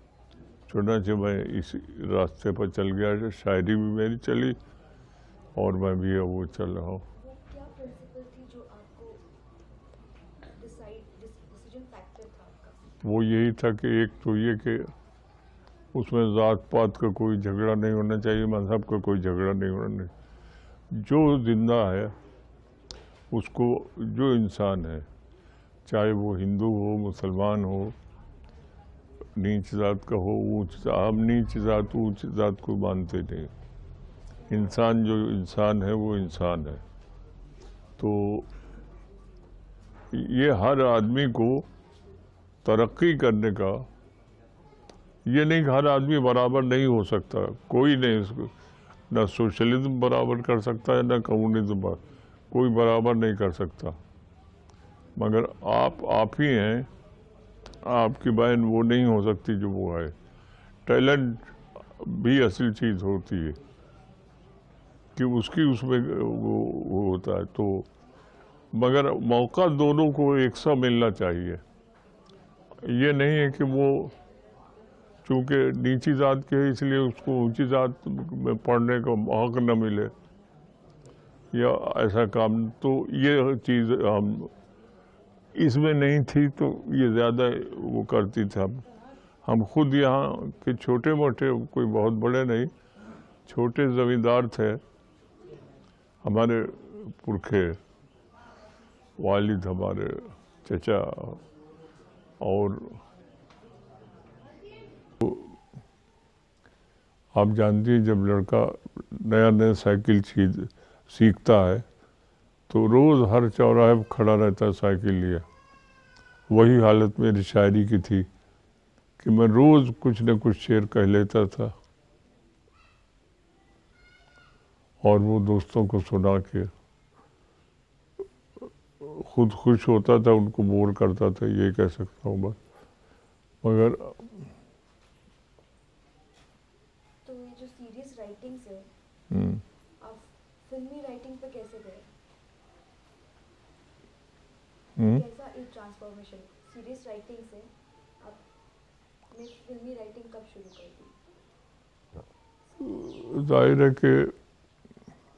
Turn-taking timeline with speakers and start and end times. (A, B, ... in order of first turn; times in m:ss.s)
0:00.7-0:04.6 A
0:05.6-0:07.0 A
0:07.1-0:09.2 B
0:10.5-0:12.9 B
0:13.0-0:14.9 A
0:15.9-0:20.1 A
0:20.9-0:22.1 A
0:23.3-0:25.0 A
0:25.8-0:27.9 A
0:29.4-0:33.5 A
0:34.5-0:36.8 A
0:38.0-0:38.5 A
0:40.1-0:41.7 A
0:42.6-0:43.8 A
0:45.2-0:48.5 A
0:49.1-0:54.0 A
0:55.2-0:56.9 A
0:57.8-1:00.1 A
1:00.8-1:03.6 A
1:05.2-1:07.9 A
1:08.7-1:11.6 A
1:12.8-1:14.2 A
1:15.2-1:20.1 A
1:21.5-1:24.5 A
1:25.5-1:28.8 A
1:29.4-1:32.7 A
1:33.5-1:34.8 A
1:36.2-1:37.8 A
1:39.2-1:41.4 A
1:42.4-1:43.0 A
1:45.2-1:45.6 A
1:47.3-1:51.8 A
1:52.7-1:55.4 A
1:56.5-1:58.3 A
1:59.2-2:01.7 A
2:05.0-2:06.7 A
2:09.0-2:12.6 A
2:13.6-2:14.4 A
2:17.2-2:18.9 B
2:19.3-2:19.6 A
2:20.0-2:22.1 B
2:25.0-2:25.2 A
2:25.0-2:28.4 B
2:29.3-2:31.2 B
2:32.8-2:34.3 A